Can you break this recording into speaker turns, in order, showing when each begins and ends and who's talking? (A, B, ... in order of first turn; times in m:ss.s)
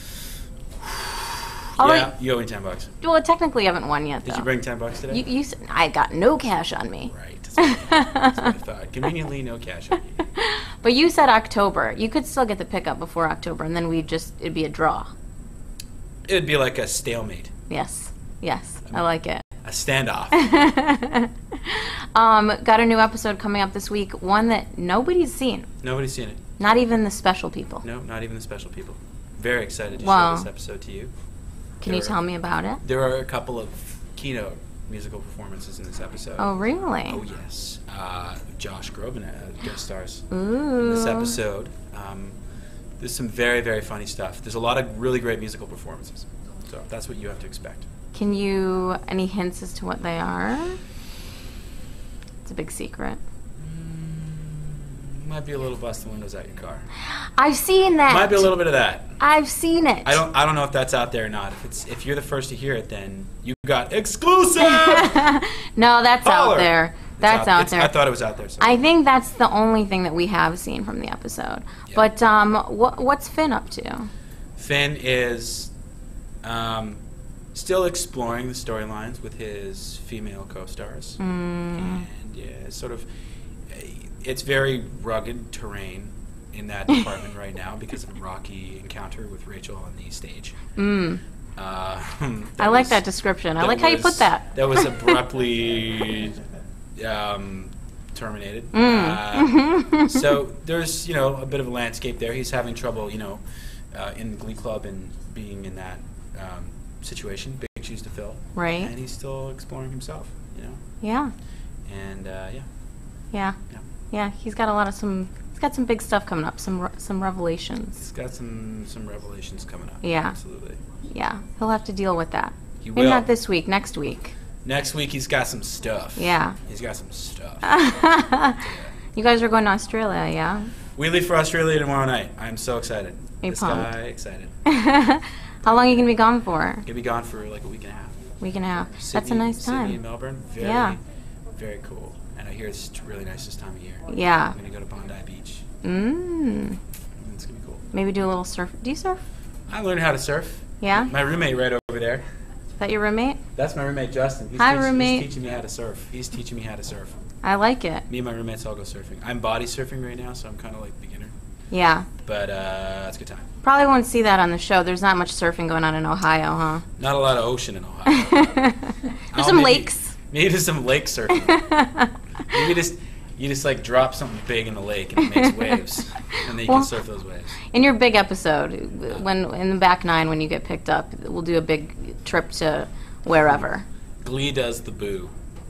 0:00.8-0:03.0 A
0:01.8-0:02.1 B
0:03.0-0:04.5 B
0:04.2-0:05.2 A
0:05.1-0:08.5 B
0:07.1-0:10.2 A
0:10.4-0:15.1 B
0:16.3-0:17.5 A
0:17.7-0:19.4 B
0:19.6-0:20.7 A
0:20.3-0:25.7 B
0:25.8-0:26.4 A
0:26.6-0:27.8 B
0:27.8-0:31.1 A
0:30.0-0:30.5 B
0:31.8-0:32.2 A
0:31.8-0:32.8 B
0:32.8-0:42.4 A
0:36.4-0:37.2 B
0:40.3-0:41.4 B
0:43.0-0:47.9 A
0:48.1-0:50.8 B
0:52.4-0:53.2 B
0:53.6-0:56.9 A
0:57.1-0:58.5 B
0:58.1-0:59.2 A
0:59.2-1:00.2 B
1:00.0-1:05.3 A
1:04.6-1:08.0 B
1:06.2-1:08.8 A
1:08.6-1:14.1 B
1:14.6-1:15.7 A
1:16.4-1:17.0 A
1:17.5-1:21.2 A
1:21.2-1:22.0 B
1:21.7-1:23.1 A
1:23.7-1:30.6 A
1:30.8-1:31.2 B
1:31.6-1:33.0 A
1:32.6-1:35.2 B
1:33.6-1:36.4 A
1:37.0-1:50.8 A
1:38.7-1:40.3 B
1:48.6-1:48.9 B
1:51.0-1:51.3 B
1:51.9-1:52.7 A
1:53.3-1:53.6 B
1:54.1-1:58.0 B
1:58.0-2:00.8 A
2:00.0-2:00.4 B
2:01.1-2:04.3 B
2:02.8-2:03.3 A
2:04.6-2:07.8 A
2:06.2-2:06.6 B
2:07.6-2:08.6 B
2:08.5-2:08.9 A
2:09.2-2:10.7 B
2:11.0-2:14.6 A
2:13.4-2:13.9 B
2:14.7-2:16.8 B
2:15.6-2:16.1 A
2:16.8-2:18.4 A
2:18.4-2:20.0 B
2:18.9-2:21.0 A
2:20.6-2:21.0 B
2:21.6-2:25.6 A
2:24.1-2:24.6 B
2:25.8-2:26.8 B
2:27.2-2:27.8 A
2:27.9-2:29.2 B
2:29.7-2:32.2 A
2:30.8-2:31.1 B
2:32.8-2:33.4 B
2:33.6-2:37.2 A
2:34.6-2:35.3 B
2:37.4-2:38.1 B
2:38.1-2:41.3 A
2:41.7-2:42.1 B
2:42.2-2:43.5 A
2:43.6-2:46.9 B
2:47.0-2:48.6 A
2:48.1-2:50.1 B
2:49.3-2:51.6 A
2:51.3-2:52.4 B
2:52.5-2:57.6 A
2:55.2-2:55.8 B
2:56.3-2:56.9 B
2:57.6-3:03.8 B
3:04.2-3:05.3 A